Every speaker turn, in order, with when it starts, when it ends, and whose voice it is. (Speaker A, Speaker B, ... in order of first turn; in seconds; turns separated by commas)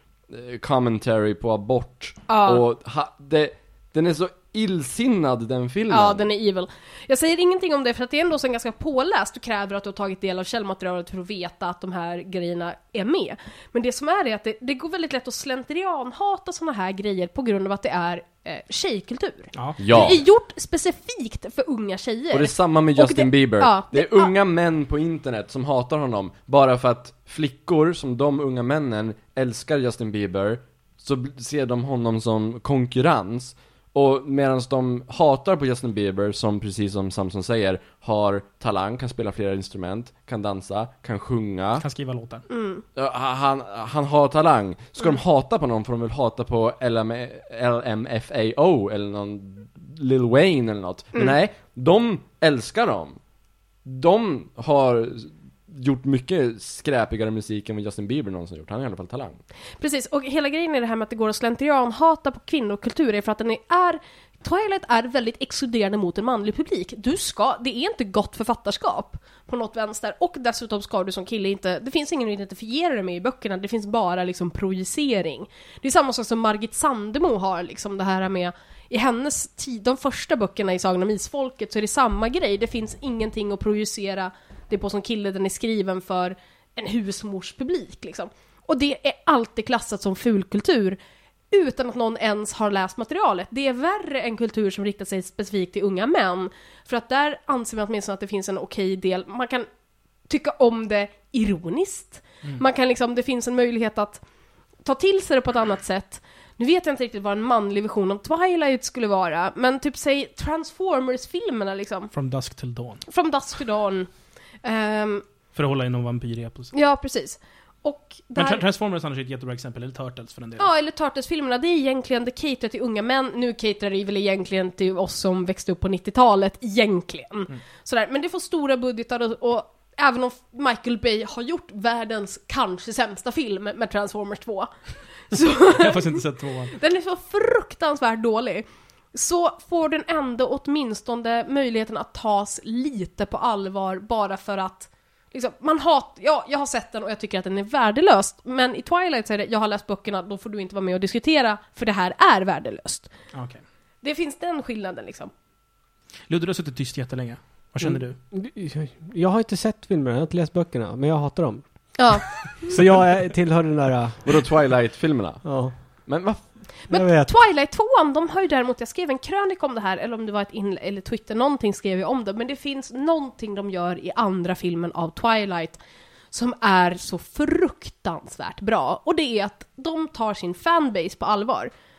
Speaker A: 0.3-6.2, Speaker B: 2.3-2.6, Speaker B: 5.9-24.3, Speaker C: 19.6-20.0, Speaker A: 19.8-20.2, Speaker A: 22.3-41.8, Speaker C: 41.8-42.4, Speaker B: 42.5-42.9, Speaker A: 43.0-53.2, Speaker A: 53.9-59.4, Speaker B: 59.8-91.0, Speaker B: 91.5-99.7, Speaker B: 100.3-104.2, Speaker B: 104.8-112.1, Speaker C: 112.1-113.0, Speaker B: 113.1-114.1, Speaker B: 114.6-115.2, Speaker C: 115.5-116.7, Speaker B: 116.7-118.6, Speaker C: 118.4-120.7, Speaker B: 120.6-134.7, Speaker B: 135.3-153.1, Speaker C: 135.7-136.8, Speaker C: 153.3-153.6, Speaker B: 154.0-155.3, Speaker C: 156.3-158.2, Speaker D: 157.8-161.6, Speaker B: 162.0-162.7, Speaker D: 162.7-164.5, Speaker A: 164.2-165.4, Speaker D: 165.4-165.7, Speaker A: 166.1-166.4, Speaker B: 166.9-175.8, Speaker D: 166.9-167.3, Speaker B: 176.3-181.7